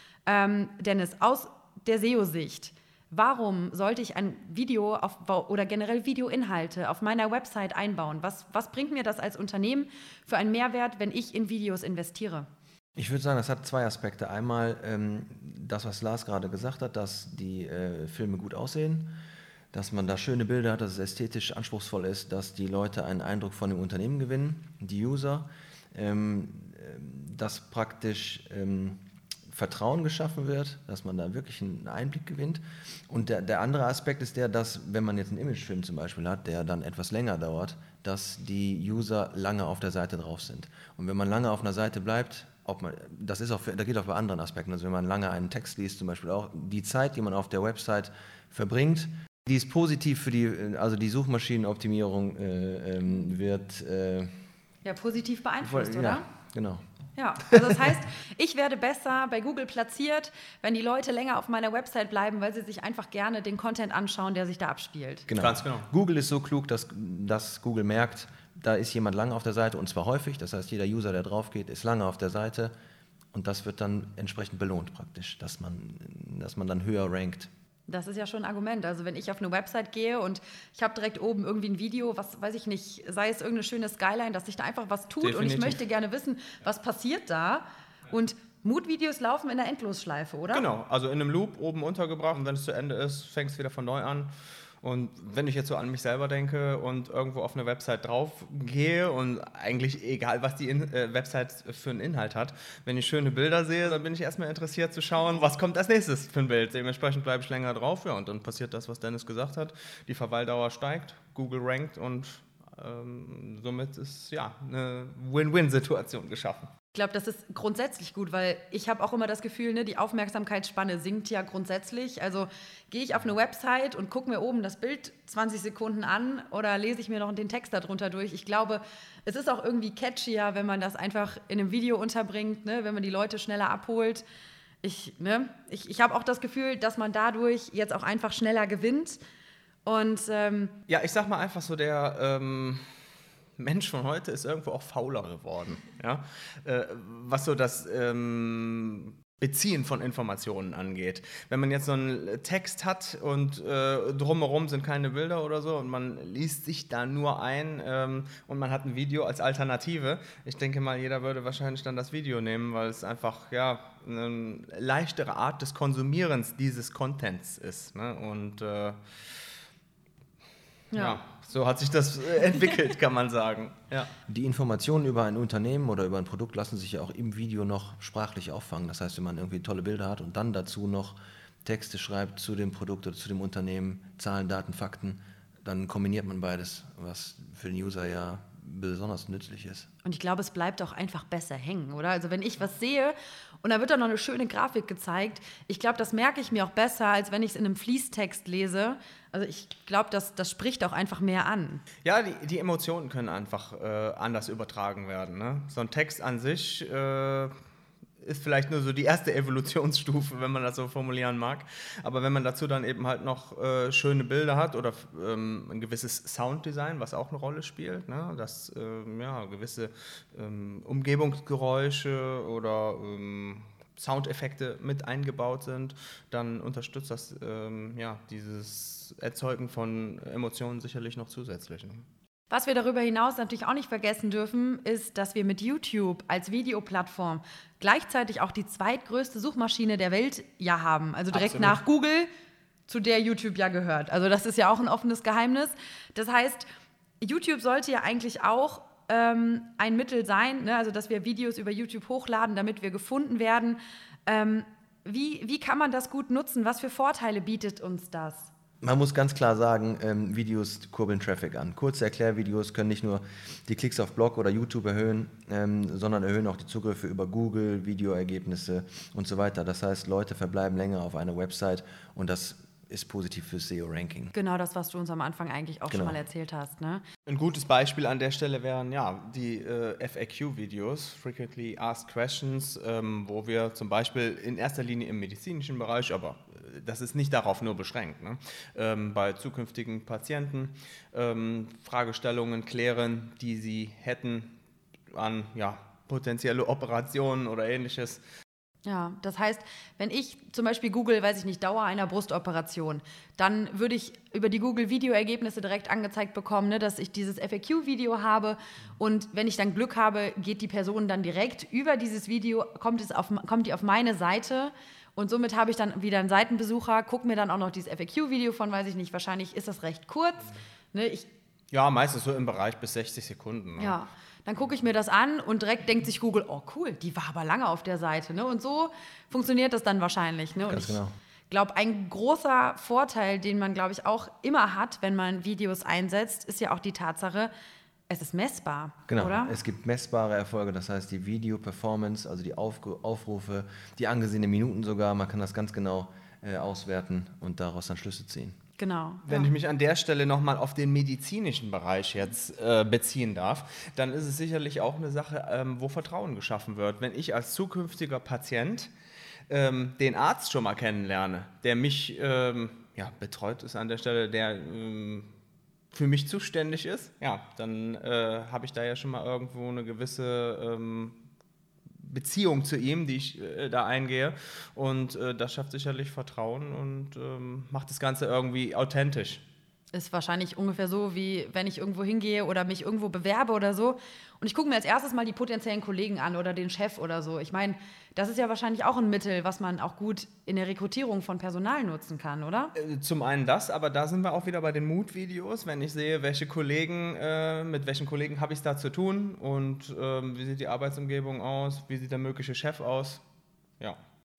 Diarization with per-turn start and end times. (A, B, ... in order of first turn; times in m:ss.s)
0:00.2-0:12.5 A
0:13.0-0:19.1 B
0:19.7-0:54.3 B
0:54.8-0:56.2 A
0:55.6-0:56.8 B
0:57.2-1:05.3 A
0:57.5-0:57.9 B
1:05.3-1:12.7 B
1:05.3-1:05.9 C
1:13.3-1:17.5 B
1:17.9-1:30.6 A
1:25.2-1:25.8 C
1:30.5-1:56.7 C
1:56.9-2:14.2 A
2:14.8-2:19.2 A
2:19.8-2:20.7 A
2:20.9-2:22.9 C
2:23.6-2:49.2 C
2:50.9-2:51.2 A
2:50.9-2:54.1 C
2:54.3-3:09.9 B
3:10.0-3:21.8 A
3:22.0-3:27.5 C
3:28.2-3:52.0 C
3:52.5-4:02.3 A
4:01.3-4:01.8 C
4:02.9-4:06.7 A
4:07.2-4:18.5 A
4:18.8-4:34.3 B
4:34.3-4:37.0 A
4:35.9-4:36.2 B
4:37.2-4:54.5 C
4:55.1-4:58.2 C
4:58.8-5:21.3 A
5:21.7-5:24.0 C
5:23.8-5:37.5 A
5:30.7-5:31.1 B
5:38.1-5:39.5 A
5:39.1-5:48.6 B
5:48.8-5:49.5 A
5:49.3-5:58.9 C
5:59.5-6:05.3 C
6:05.9-6:11.2 C
6:12.0-6:19.4 C
6:19.9-6:32.7 A
6:32.8-6:43.2 C